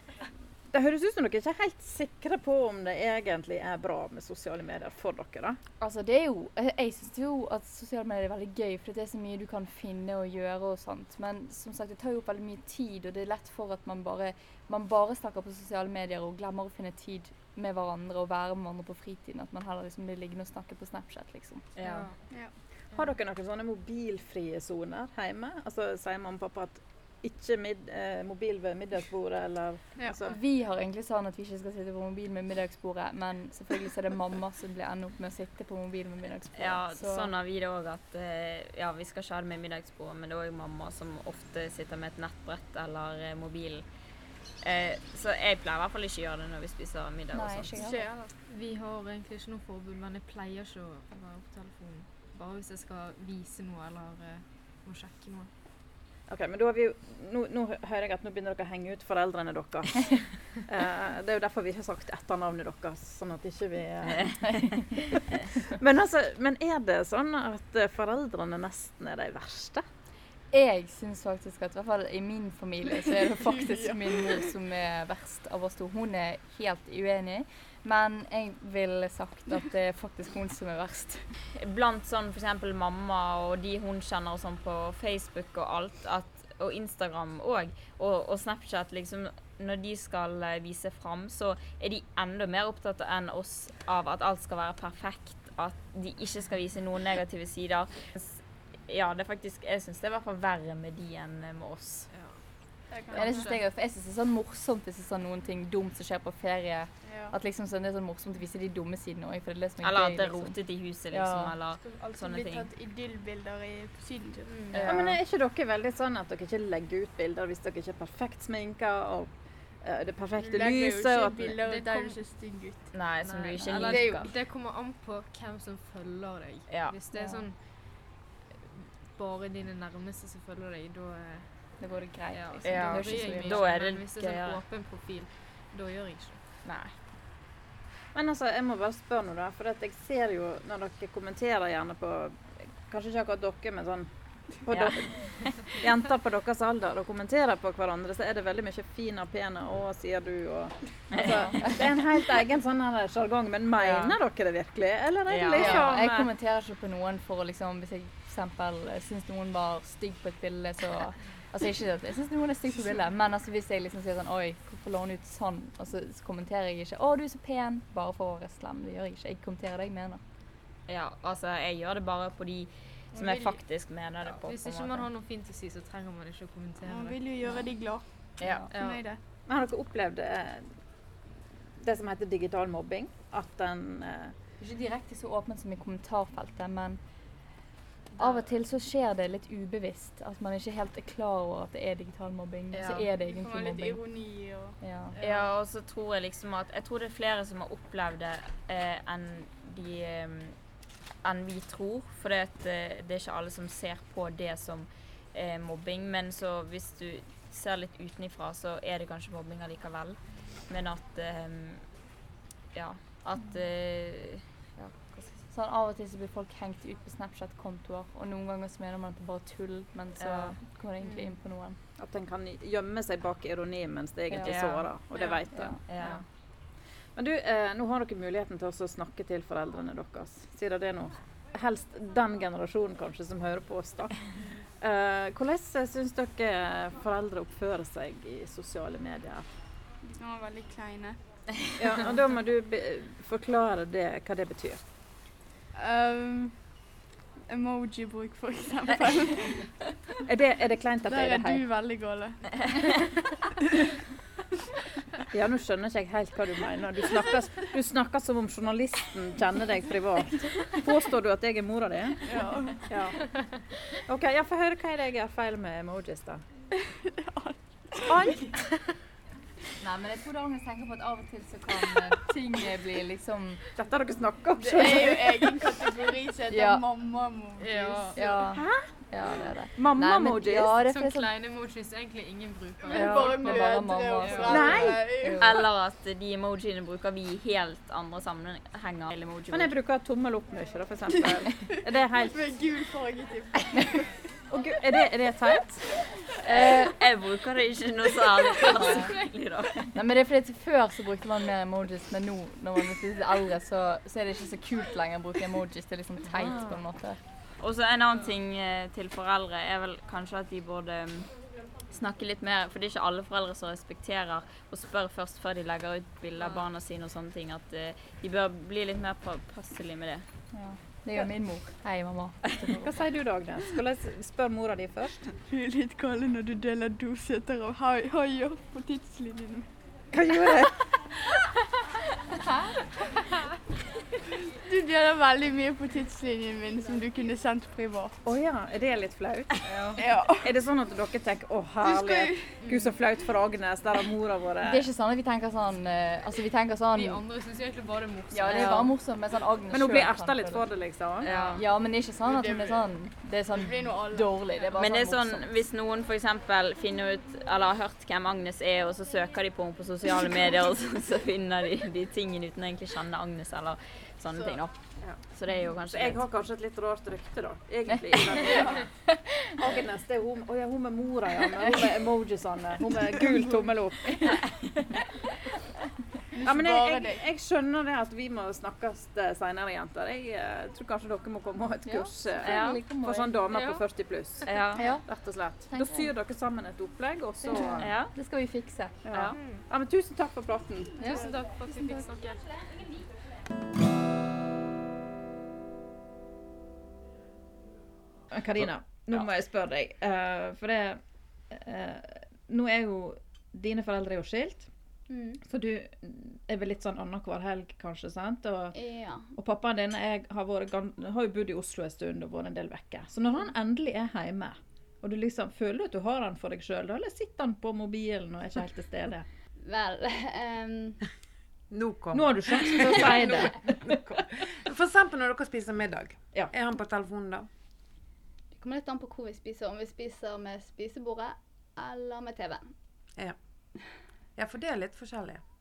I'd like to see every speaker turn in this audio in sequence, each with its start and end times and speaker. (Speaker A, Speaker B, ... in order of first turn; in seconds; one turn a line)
Speaker A: 0.7-5.6
Speaker B: 5.8-22.0
Speaker C: 21.8-22.1
Speaker D: 21.8-22.2
Speaker E: 22.3-22.5
Speaker A: 22.9-30.3
Speaker B: 30.2-37.3
Speaker C: 36.5-43.9
Speaker C: 44.6-47.7
Speaker B: 47.3-48.0
Speaker E: 47.8-48.3
Speaker D: 47.8-55.5
Speaker A: 56.3-69.9
Speaker B: 70.5-81.3
Speaker E: 73.1-74.5
Speaker C: 81.5-102.1
Speaker D: 102.1-102.4
Speaker E: 102.9-103.5
Speaker D: 103.0-103.6
Speaker B: 103.1-110.6
Speaker E: 107.0-107.3
Speaker C: 109.8-112.7
Speaker B: 111.1-111.5
Speaker E: 111.8-114.8
Speaker C: 114.7-115.2
Speaker A: 114.9-121.6
Speaker E: 120.4-123.1
Speaker D: 121.6-122.2
Speaker C: 122.9-124.3
Speaker D: 123.3-128.1
Speaker B: 123.6-124.2
Speaker E: 123.9-124.2
Speaker C: 126.7-127.4
Speaker B: 127.1-127.4
Speaker D: 129.1-131.7
Speaker B: 131.8-133.7
Speaker C: 132.3-134.6
Speaker D: 132.5-136.4
Speaker C: 136.6-136.9
Speaker A: 138.1-156.3
Speaker C: 144.7-145.5
Speaker C: 151.1-151.7
Speaker B: 151.2-151.7
Speaker F: 153.8-154.1
Speaker C: 155.3-155.9
Speaker B: 155.5-170.2
Speaker C: 170.9-175.1
Speaker D: 173.1-173.6
Speaker D: 174.2-177.7
Speaker E: 176.8-179.2
Speaker C: 178.4-179.0
Speaker D: 178.7-179.0
Speaker A: 179.4-180.8
Speaker A: 181.8-184.3
Speaker B: 184.6-187.0
Speaker B: 188.2-194.0
Speaker E: 192.9-195.5
Speaker B: 194.8-195.2
Speaker C: 195.2-212.1
Speaker C: 212.7-215.2
Speaker B: 214.8-221.8
Speaker C: 220.2-220.6
Speaker A: 222.0-226.2
Speaker B: 224.3-224.8
Speaker C: 224.4-226.2
Speaker B: 225.5-226.2
Speaker A: 227.1-239.5
Speaker E: 240.0-241.2
Speaker A: 241.8-244.8
Speaker E: 245.7-246.9
Speaker E: 247.5-250.0
Speaker A: 250.2-251.6
Speaker E: 251.0-253.0
Speaker A: 255.3-262.3
Speaker E: 262.2-262.9
Speaker A: 262.8-263.3
Speaker A: 264.0-266.4
Speaker E: 267.1-268.9
Speaker A: 268.1-268.5
Speaker B: 269.8-273.6
Speaker A: 273.8-275.6
Speaker E: 274.6-278.3
Speaker B: 276.5-276.8
Speaker D: 277.6-278.5
Speaker B: 278.1-281.3
Speaker A: 278.5-279.0
Speaker A: 279.8-280.7
Speaker D: 280.8-283.6
Speaker E: 282.8-285.6
Speaker B: 282.9-285.6
Speaker D: 284.2-284.9
Speaker A: 284.4-285.0
Speaker C: 285.4-289.7
Speaker A: 289.5-292.5
Speaker E: 291.1-294.3
Speaker A: 294.5-295.9
Speaker C: 296.4-299.9
Speaker B: 296.4-296.9
Speaker B: 298.6-299.1
Speaker D: 298.9-299.1
Speaker B: 299.9-307.2
Speaker C: 307.6-320.3
Speaker D: 316.4-316.6
Speaker B: 320.5-323.0
Speaker A: 322.8-325.3
Speaker E: 325.5-329.7
Speaker A: 330.1-330.8
Speaker E: 334.6-338.2
Speaker A: 338.2-339.6
Speaker D: 339.7-340.0
Speaker E: 340.0-340.5
Speaker A: 340.4-344.8
Speaker E: 341.8-342.8
Speaker D: 342.6-342.9
Speaker B: 344.6-347.2
Speaker D: 346.9-348.9
Speaker B: 348.3-355.5
Speaker A: 348.5-348.9
Speaker A: 349.7-351.3
Speaker C: 351.2-351.6
Speaker D: 351.3-351.6
Speaker E: 352.2-352.9
Speaker E: 353.5-354.6
Speaker C: 354.8-366.2
Speaker A: 365.8-368.9
Speaker A: 369.5-375.0
Speaker E: 376.3-377.2
Speaker A: 376.4-384.5
Speaker B: 381.9-383.3
Speaker C: 382.4-382.8
Speaker D: 383.5-383.9
Speaker C: 384.5-384.9
Speaker B: 384.8-385.0
Speaker A: 385.0-387.9
Speaker B: 385.7-386.1
Speaker B: 387.4-389.2
Speaker C: 387.8-388.1
Speaker A: 389.0-391.0
Speaker D: 391.0-392.4
Speaker E: 391.0-392.4
Speaker A: 398.3-404.7
Speaker G: 405.1-405.4
Speaker A: 405.4-408.8
Speaker G: 408.7-409.3
Speaker A: 409.3-419.2
Speaker G: 419.6-421.0
Speaker F: 421.7-427.5
Speaker A: 422.1-423.9
Speaker G: 428.5-432.7
Speaker F: 434.4-435.4